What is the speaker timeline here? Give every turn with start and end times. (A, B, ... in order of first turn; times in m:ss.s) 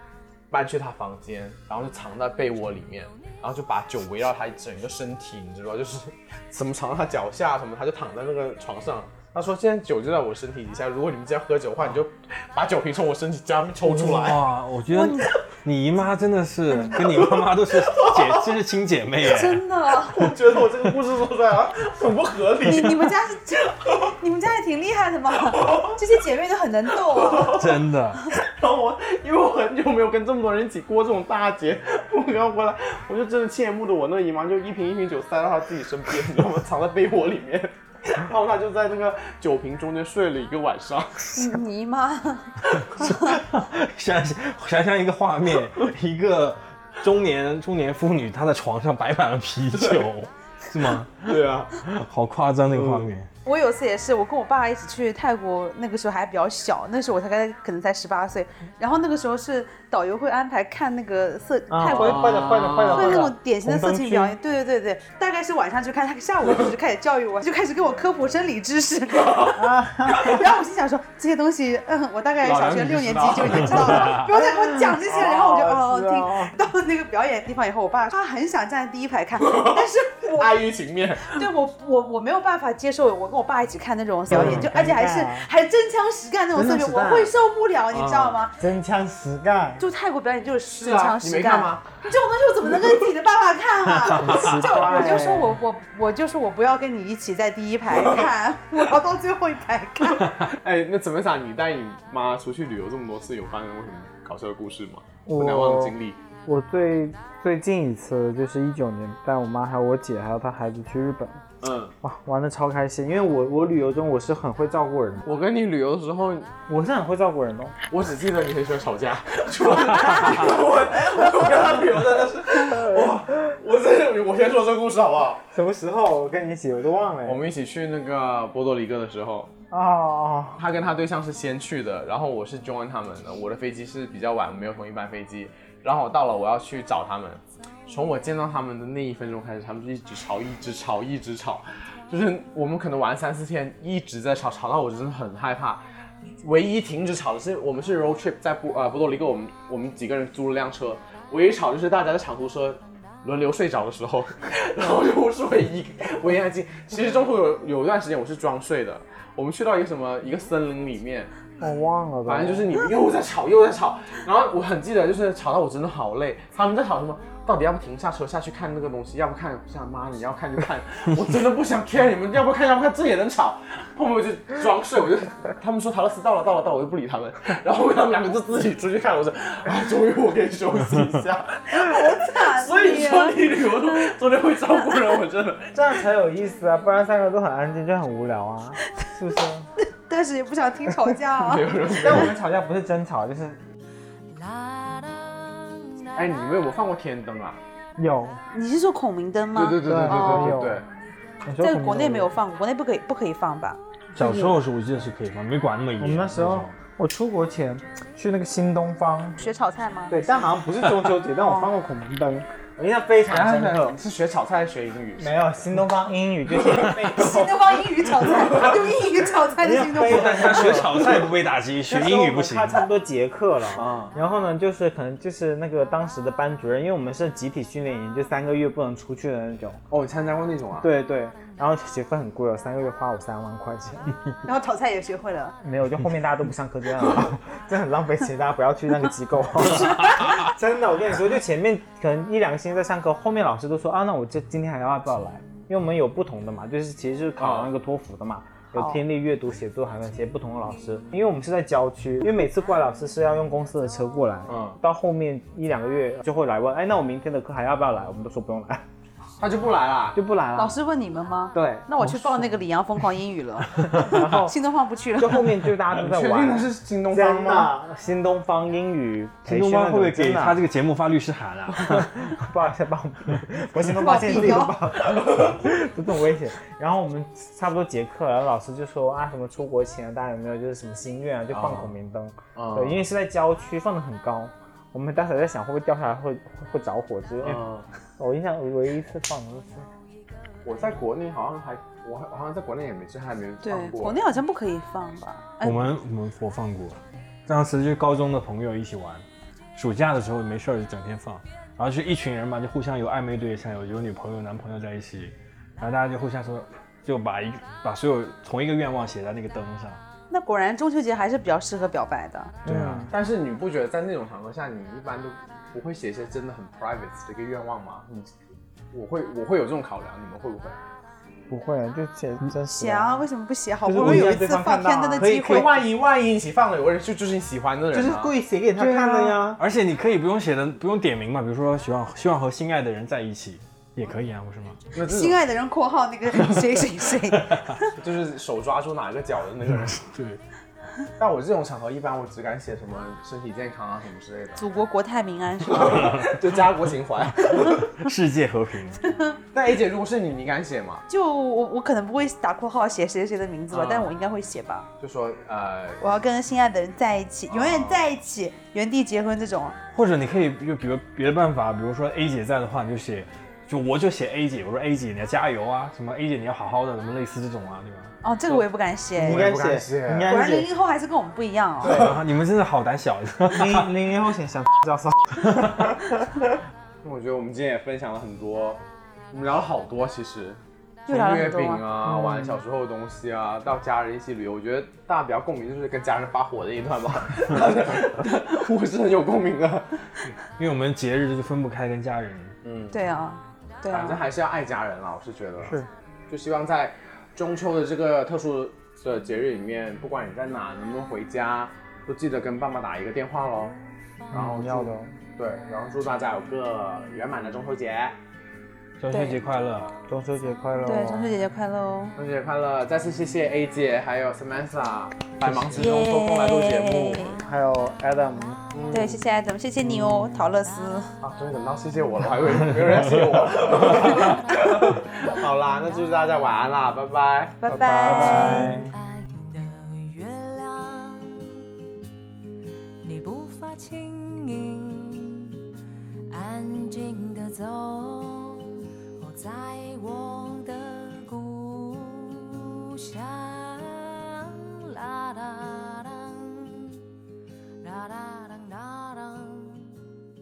0:00.5-0:14.5 A
0:13.8-0:19.7 B
0:14.9-0:15.4 C
0:16.9-0:18.4 A
0:19.2-0:20.2 C
0:20.0-0:23.1 A
0:22.6-0:27.6 C
0:25.6-0:26.0 A
0:27.1-0:41.3 A
0:27.4-0:28.3 B
0:41.3-0:42.5 C
0:42.7-0:53.3 B
0:49.7-0:50.0 A
0:51.2-0:51.7 A
0:52.7-0:53.1 A
0:53.4-1:02.3 C
1:01.7-1:04.4 D
1:01.9-1:03.3 A
1:02.9-1:20.6 C
1:09.6-1:10.4 D
1:12.4-1:14.2 A
1:14.1-1:16.5 D
1:19.4-1:21.4 A
1:21.2-1:28.6 C
1:24.3-1:25.5 D
1:24.3-1:24.6 A
1:26.5-1:27.3 D
1:27.9-1:28.4 A
1:28.6-1:29.8 D
1:29.8-1:40.3 C
1:30.8-1:32.0 A
1:34.2-1:35.6 D
1:40.5-1:46.2 A
1:45.3-1:51.4 D
1:51.6-1:52.0 A
1:52.0-1:55.3 D
1:55.2-1:56.5 A
1:56.7-1:57.8 D
1:57.9-2:05.5 A
2:02.6-2:03.2 D
2:05.5-2:07.4 D
2:07.2-2:09.5 A
2:09.7-2:10.6 D
2:10.6-2:25.8 A
2:26.4-2:41.3 A
2:41.6-2:42.7 D
2:42.3-3:05.7 A
3:01.7-3:03.4 C
3:05.7-3:09.7 D
3:09.8-3:11.7 C
3:11.4-3:12.3 A
3:11.9-3:13.6 D
3:14.3-3:16.3 E
3:16.2-3:17.6 A
3:18.0-3:18.4 D
3:18.5-3:20.5 C
3:19.5-3:20.9 A
3:19.8-3:20.8 D
3:21.5-3:22.3 D
3:21.6-3:23.8 C
3:24.1-3:26.7 B
3:24.2-3:24.6 D
3:26.0-3:29.4 D
3:29.4-3:30.2 C
3:30.1-3:34.0 D
3:31.4-3:31.7 C
3:33.3-3:35.3 A
3:35.2-3:37.6 D
3:37.2-3:40.6 C
3:39.6-3:41.3 D
3:39.9-3:42.8 B
3:40.6-3:41.0 A
3:41.8-3:49.8 D
3:43.8-3:44.2 A
3:49.9-3:50.9 A
3:50.8-3:54.2 D
3:54.4-3:55.6 C
3:55.6-4:18.8 D
3:59.9-4:00.2 C
4:07.4-4:07.7 A
4:08.7-4:09.0 C
4:14.5-4:14.8 A
4:19.4-4:20.2 A
4:20.1-4:20.8 D
4:20.6-4:25.5 C
4:21.5-4:22.6 D
4:23.9-4:24.6 D
4:25.2-4:30.6 D
4:25.9-4:27.7 A
4:29.4-4:32.1 B
4:31.8-4:47.6 D
4:34.0-4:34.8 C
4:35.0-4:35.5 A
4:41.5-4:41.9 A
4:42.6-4:43.0 A
4:47.4-4:47.9 A
4:48.2-4:49.9 D
4:50.6-4:54.2 A
4:53.6-4:55.9 C
4:55.6-4:59.2 B
4:59.8-5:10.0 B
5:10.3-5:12.5 C
5:12.6-5:13.1 D
5:12.7-5:13.1 B
5:13.1-5:18.3 A
5:18.9-5:20.8 A
5:21.5-5:23.3 D
5:22.7-5:25.7 C
5:23.8-5:25.6 D
5:25.2-5:28.4 A
5:27.9-5:29.6 D
5:28.8-5:29.3 C
5:29.6-5:34.8 B
5:34.9-5:35.4 A
5:35.0-5:37.9 C
5:37.3-5:37.8 B
5:38.0-5:40.0 A
5:39.9-5:40.4 B
5:41.2-5:44.6 A
5:44.6-5:46.2 C
5:45.7-5:47.9 A
5:47.4-5:49.0 B
5:49.0-5:49.4 C
5:49.5-5:51.0 A
5:51.1-5:54.9 C
5:53.7-5:54.1 A
5:55.0-5:56.0 A
5:56.0-5:59.8 C
5:57.5-5:58.0 A
5:59.9-6:08.1 B
6:08.2-6:09.5 C
6:09.2-6:10.7 D
6:09.2-6:10.5 A
6:10.3-6:12.0 C
6:11.8-6:12.2 A
6:11.9-6:13.9 B
6:13.5-6:16.0 D
6:17.0-6:30.1 A
6:21.1-6:21.8 C
6:22.1-6:22.6 D
6:30.5-6:32.6 B
6:32.6-6:33.0 A
6:32.9-6:34.2 C
6:33.9-6:35.8 A
6:35.6-6:35.9 D
6:36.3-6:43.8 A
6:44.3-6:45.1 D
6:44.3-6:48.2 A
6:49.0-6:49.9 B
6:49.1-6:49.4 C
6:50.1-6:51.4 D
6:50.8-6:52.2 C
6:52.2-6:57.2 A
6:55.8-6:57.4 C
6:57.4-6:58.6 D
6:58.7-6:59.2 A
6:58.9-7:01.1 C
7:01.2-7:07.6 A
7:07.6-7:08.8 C
7:07.7-7:08.9 D
7:08.1-7:11.6 E
7:13.0-7:15.6 E
7:16.3-7:27.0 E
7:27.8-7:30.0 E